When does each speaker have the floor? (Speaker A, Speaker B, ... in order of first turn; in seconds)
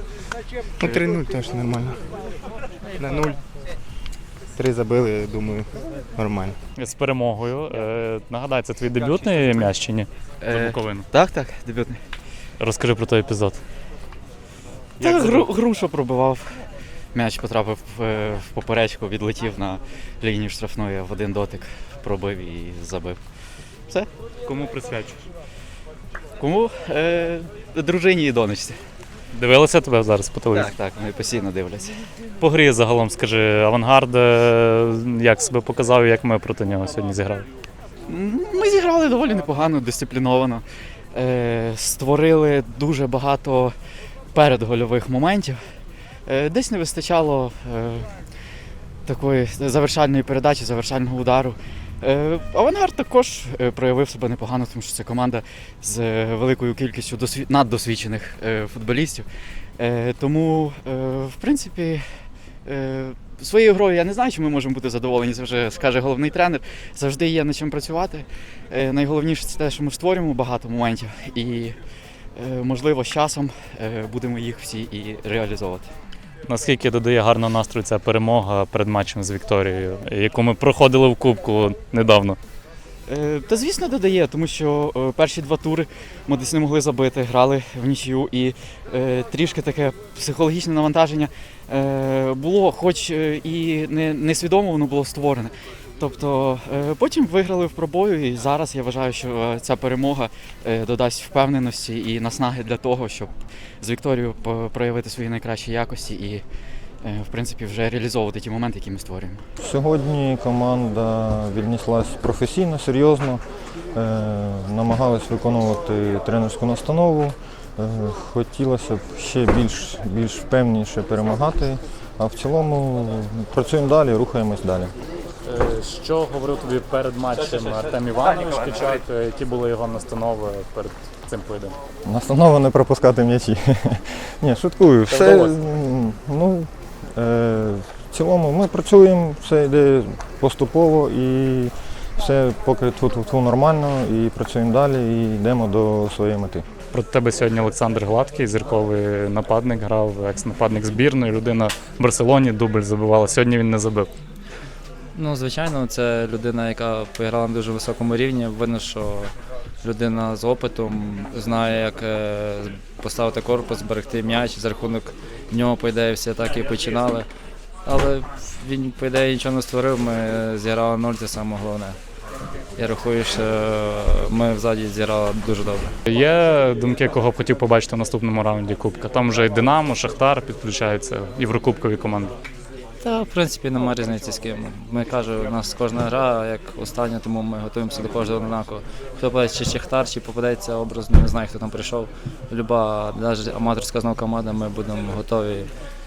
Speaker A: 0.8-2.0, 3.0-3.4, 4.5-6.6
Speaker B: 6.8-11.1, 12.6-13.6, 15.0-15.5, 24.4-25.2, 29.3-30.7, 32.4-37.5, 76.5-82.4, 125.4-131.8, 146.9-154.1, 176.0-182.4
Speaker C: 10.4-12.0, 15.0-23.2, 26.4-28.8, 30.5-32.0, 38.1-40.6, 41.1-43.7, 44.3-45.6, 46.2-48.3, 49.0-59.2, 59.8-71.8, 72.3-75.9, 83.1-106.4, 107.0-109.4
Speaker D: 109.6-113.4, 113.9-124.9, 132.0-146.6
Speaker E: 155.1-159.3, 159.8-167.3, 167.8-172.0, 172.8-175.9, 183.0-195.7